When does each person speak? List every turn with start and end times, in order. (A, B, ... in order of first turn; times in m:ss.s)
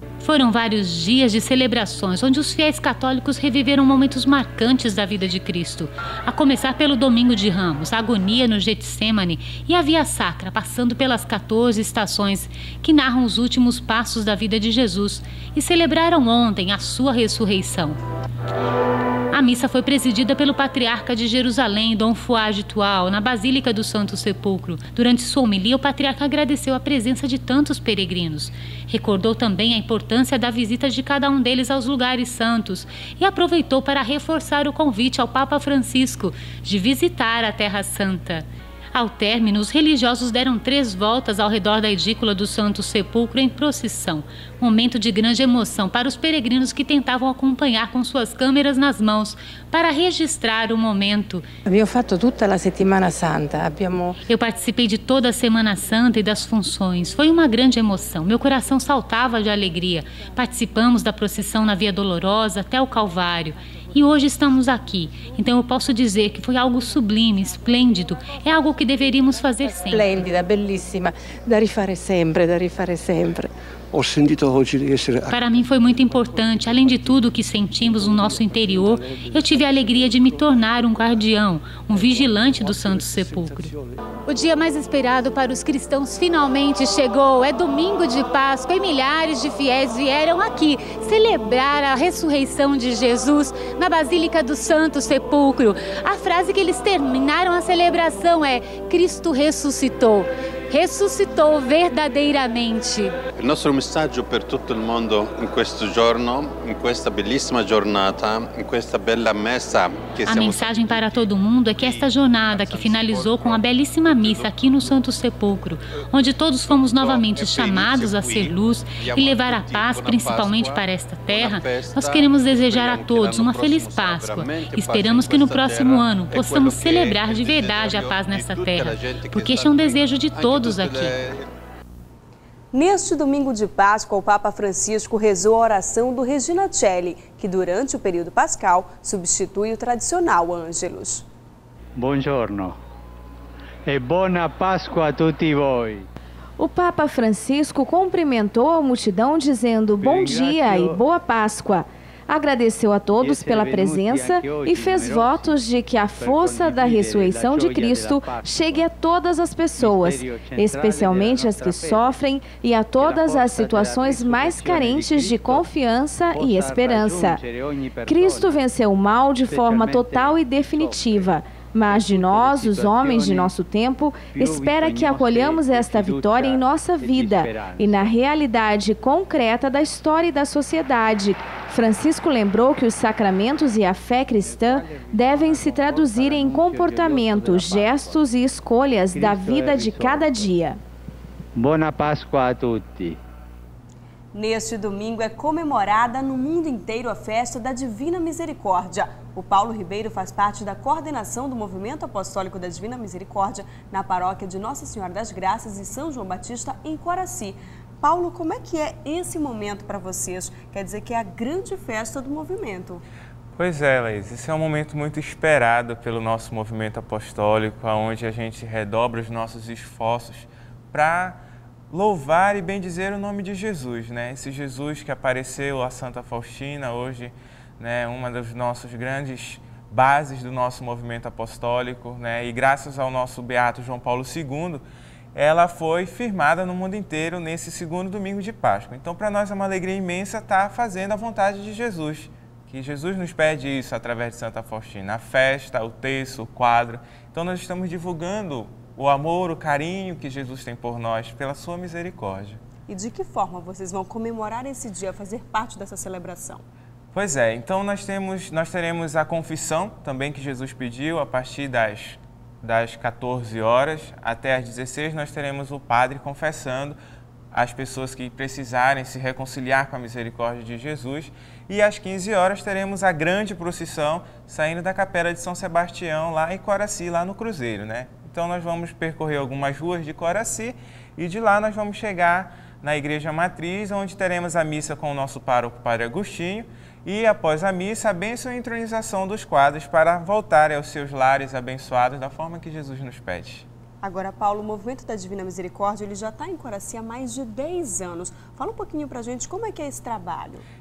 0:00.2-0:18.0 A
0:19.3-0:51.4 A
0:51.7-0:54.2 B
0:54.3-1:10.2 A
1:09.9-1:15.2 B
1:15.3-1:23.7 A
1:24.3-1:43.2 A
1:43.4-1:51.2 C
1:50.3-2:11.2 A
1:51.8-1:54.5 C
1:56.7-2:11.5 C
2:12.7-2:21.2 D
2:22.0-2:22.8 E
2:23.9-2:26.1 E
2:26.6-2:47.4 F
2:30.0-2:31.0 E
2:33.2-2:35.6 E
2:36.2-2:38.8 E
2:39.8-2:42.1 E
2:43.0-2:45.7 E
2:46.4-2:48.6 E
2:48.0-3:10.8 F
2:49.5-2:51.1 E
2:52.0-2:53.5 E
2:54.3-2:57.9 E
3:05.5-3:08.1 E
3:09.1-3:10.5 E
3:11.6-3:13.2 E
3:14.3-3:33.0 D
3:33.6-4:12.6 G
4:12.9-4:16.6 D
4:17.1-4:27.0 G
4:27.5-4:53.6 G
4:54.0-5:00.6 D